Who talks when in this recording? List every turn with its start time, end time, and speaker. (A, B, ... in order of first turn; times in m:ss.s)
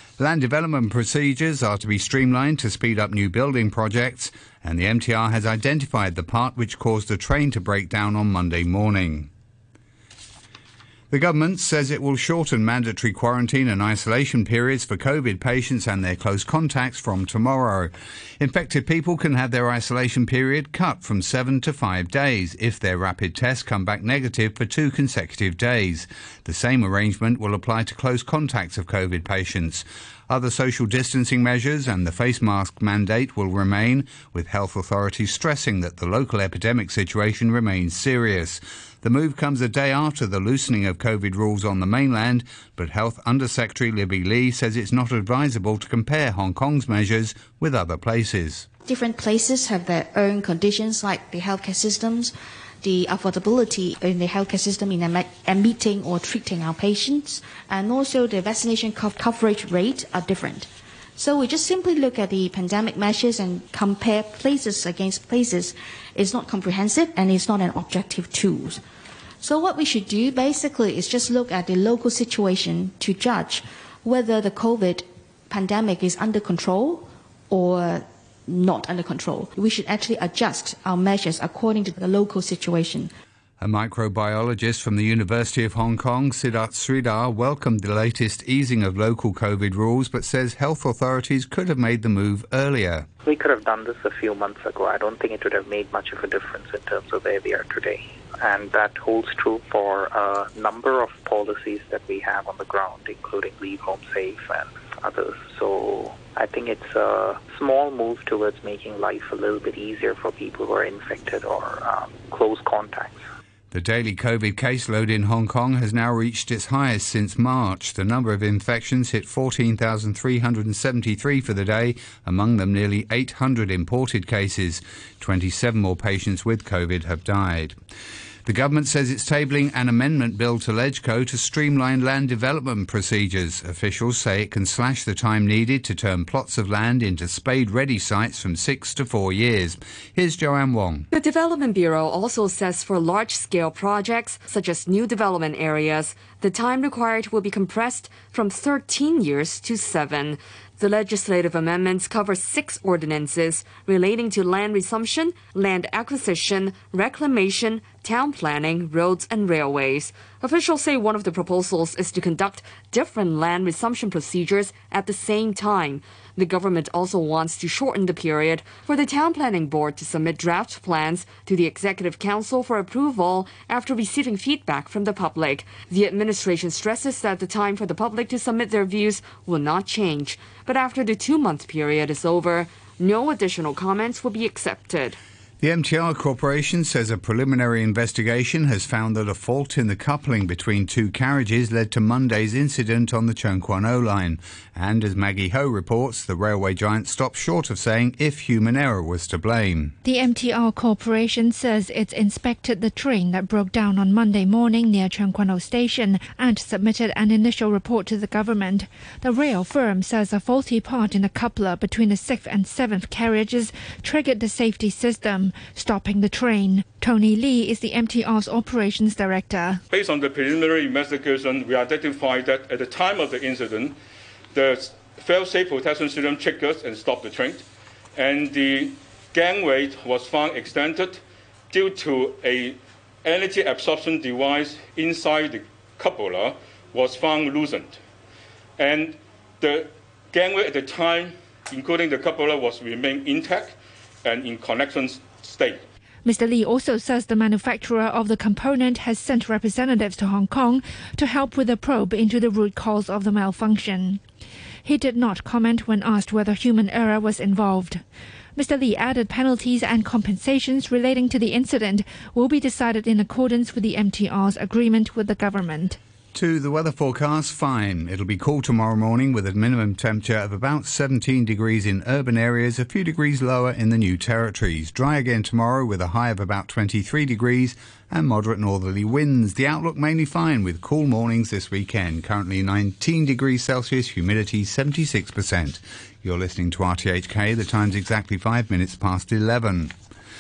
0:00.2-0:09.3 A
0:11.1-0:48.7 A
0:48.9-0:52.3 B
0:52.8-1:00.7 B
1:01.2-1:08.8 B
1:09.4-1:23.1 B
1:23.6-1:33.1 A
1:33.2-1:53.2 C
1:53.7-2:07.8 A
2:08.5-2:21.1 A
2:21.1-3:05.2 D
3:05.6-3:19.9 A
3:20.0-3:39.8 E
3:39.9-3:44.0 F
3:44.5-3:47.6 F
3:48.2-3:51.2 F
3:51.7-3:58.0 F
3:58.8-4:05.8 F
4:06.2-4:14.2 E
4:14.8-4:18.0 E
4:18.6-4:26.0 E
4:26.4-4:49.9 A